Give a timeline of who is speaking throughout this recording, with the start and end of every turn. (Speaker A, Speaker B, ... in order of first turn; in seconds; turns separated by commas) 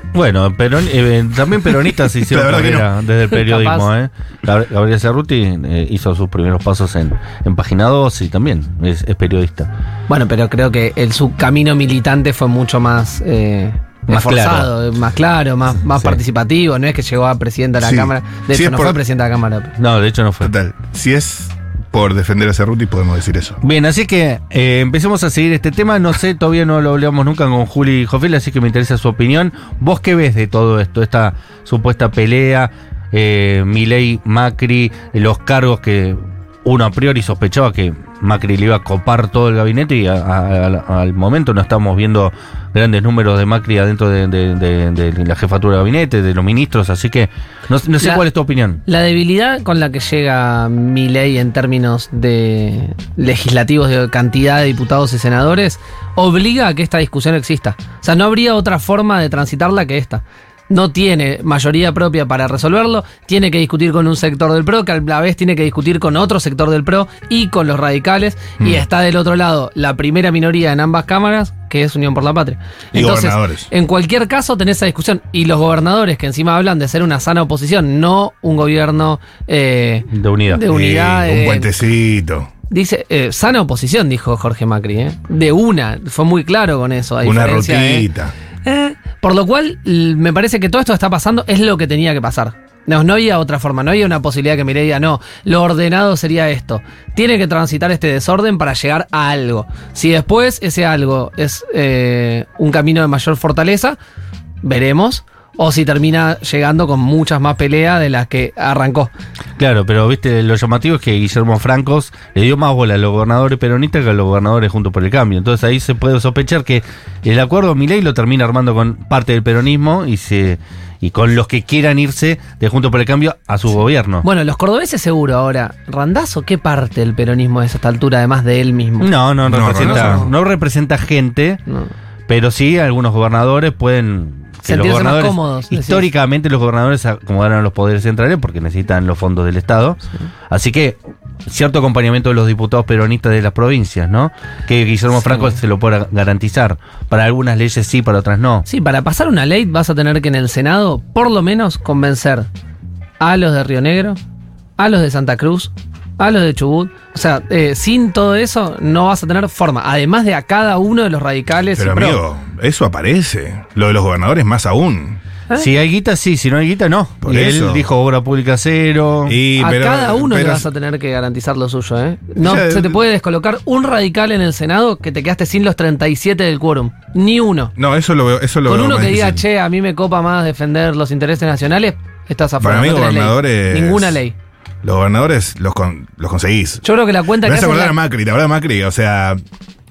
Speaker A: 0.1-9.7, Speaker B: 2.2-2.9, Speaker C: 3.3-3.9, Speaker C: 10.1-19.8, Speaker A: 14.1-14.7, Speaker B: 17.8-19.0, Speaker A: 19.8-20.5, Speaker B: 20.4-23.6, Speaker A: 23.6-48.8, Speaker C: 48.9-81.7, Speaker B: 72.9-73.7, Speaker A: 80.1-80.7, Speaker B: 80.7-82.5, Speaker C: 82.7-88.1, Speaker B: 87.2-88.3, Speaker C: 88.7-104.0, Speaker C: 104.6-109.1, Speaker A: 109.6-124.3, Speaker C: 124.2-129.2, Speaker A: 129.0-131.6, Speaker B: 129.5-130.3, Speaker C: 129.7-130.3, Speaker A: 132.3-140.0, Speaker C: 134.7-136.1, Speaker A: 140.5-148.7, Speaker C: 148.7-152.5, Speaker C: 153.2-154.2, Speaker C: 154.8-162.2, Speaker B: 161.8-165.2, Speaker A: 165.5-169.4, Speaker B: 167.2-167.9, Speaker B: 169.3-170.7, Speaker C: 169.6-177.7, Speaker B: 172.4-173.0, Speaker B: 177.8-179.4, Speaker C: 178.7-184.3, Speaker B: 182.6-184.2, Speaker B: 184.8-186.8, Speaker C: 186.8-188.0, Speaker B: 187.4-189.4